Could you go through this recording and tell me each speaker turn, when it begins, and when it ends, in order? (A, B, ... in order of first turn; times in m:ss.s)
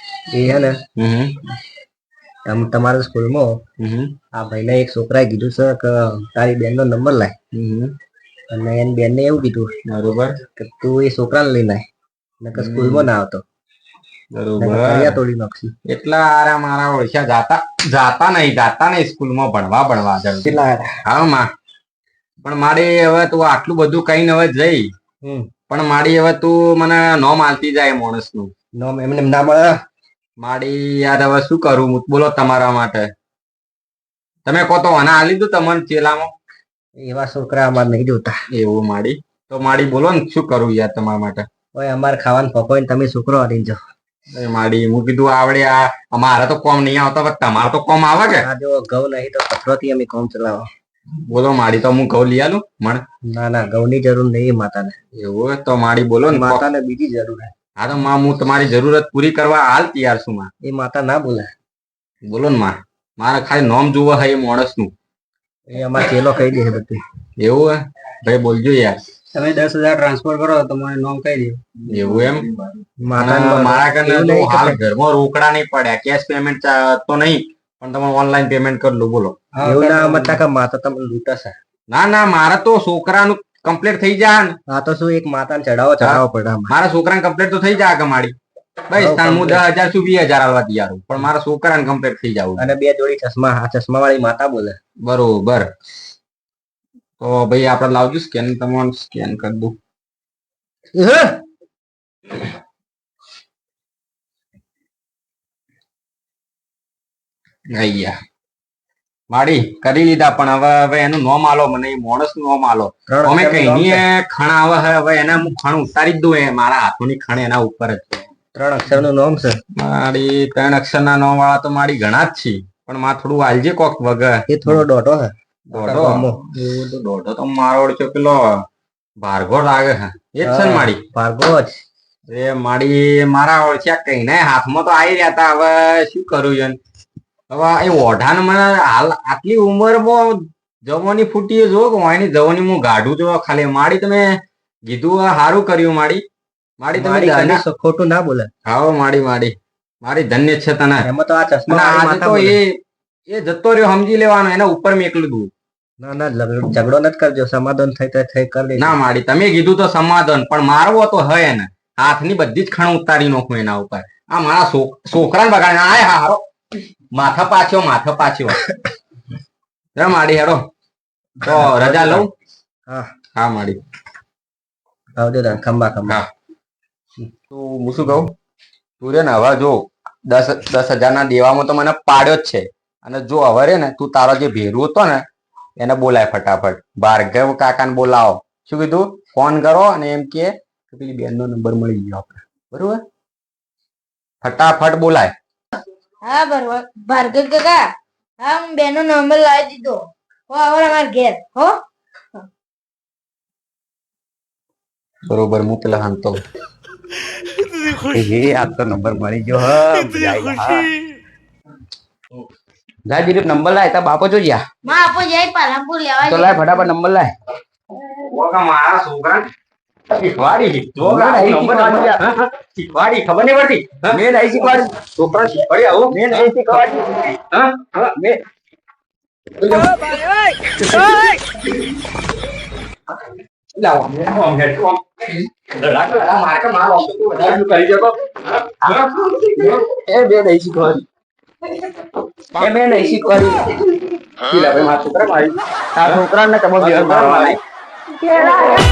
0:00.3-0:00.8 A
0:01.0-0:01.4 B
0:02.5-0:03.5 A
0:03.8-0:04.2 B
0:04.3-0:07.3 A
0:07.5-0:08.0 B
0:08.5-0:09.7 A
0:09.9-0:10.4 B
0:10.6-0:11.8 A
0:12.4-0:13.4 A
0:12.6-0:13.1 B
0:14.3-0:15.2 B
0:14.6-0:15.7 A
0:15.9-0:21.5 B
0:20.4-0:20.9 A
0:22.4-0:24.8 B
0:25.7-0:28.5 B
0:28.8-0:29.7 A
0:30.4-0:33.0 B
0:34.5-0:36.3 B
0:37.0-0:38.3 A
0:38.5-0:41.5 B
0:41.8-0:43.8 A
0:44.3-0:48.4 B
0:48.4-0:50.7 A
0:51.3-0:53.0 B
0:53.3-0:54.9 A
0:55.2-0:56.6 B
0:56.3-0:57.5 A
0:57.8-1:00.5 B
1:00.6-1:01.5 A
1:02.3-1:04.9 B
1:05.7-1:07.0 A
1:07.4-1:09.0 B
1:11.2-1:11.5 C
1:11.9-1:12.4 B
1:13.1-1:14.8 A
1:13.2-1:19.4 B
1:19.6-1:21.5 A
1:21.9-1:24.6 B
1:24.7-1:26.7 A
1:26.0-1:28.4 B
1:28.9-1:32.7 B
1:29.0-1:29.6 A
1:32.6-1:34.8 A
1:35.0-1:35.7 B
1:37.2-1:39.8 B
1:40.9-1:41.4 A
1:47.8-1:48.1 B
1:49.3-1:58.2 B
1:53.1-1:54.0 A
1:58.6-1:59.6 A
1:59.8-2:04.8 B
2:04.5-2:06.4 A
2:05.7-2:08.4 B
2:09.2-2:11.0 B
2:10.4-2:11.8 A
2:12.3-2:16.8 B
2:17.5-2:24.3 B
2:24.9-2:26.2 B
2:26.8-2:27.6 B
2:27.0-2:28.5 A
2:28.7-2:31.1 B
2:31.0-2:32.6 A
2:31.7-2:35.5 B
2:36.0-2:39.0 A
2:38.8-2:46.4 B
2:47.1-2:48.6 B
2:50.0-2:50.6 B
2:51.4-2:52.3 B
2:51.5-2:52.2 A
2:53.4-2:53.8 B
2:55.2-2:56.2 A
2:57.5-2:58.3 B
2:59.0-3:05.2 B
3:05.8-3:13.0 B
3:14.4-3:15.3 B
3:16.2-3:17.8 D
3:18.4-3:21.8 D
3:25.3-3:26.4 B
3:28.2-3:30.8 C
3:33.1-3:34.6 C
3:34.8-3:36.8 D
3:36.4-3:37.3 C
3:38.3-3:39.5 B
3:40.1-3:44.2 B
3:41.1-3:42.2 C
3:44.1-3:44.9 C
3:45.2-3:48.1 B
3:46.1-3:47.0 C
3:48.0-3:48.4 C
3:49.6-3:49.9 B
3:50.9-3:51.2 B
3:53.8-3:55.0 B
3:55.6-3:58.2 B
3:58.8-3:59.8 B
3:59.6-4:01.0 C
4:02.6-4:03.2 B
4:02.6-4:03.6 C
4:04.5-4:06.3 B
4:06.0-4:07.6 C
4:06.8-4:07.6 B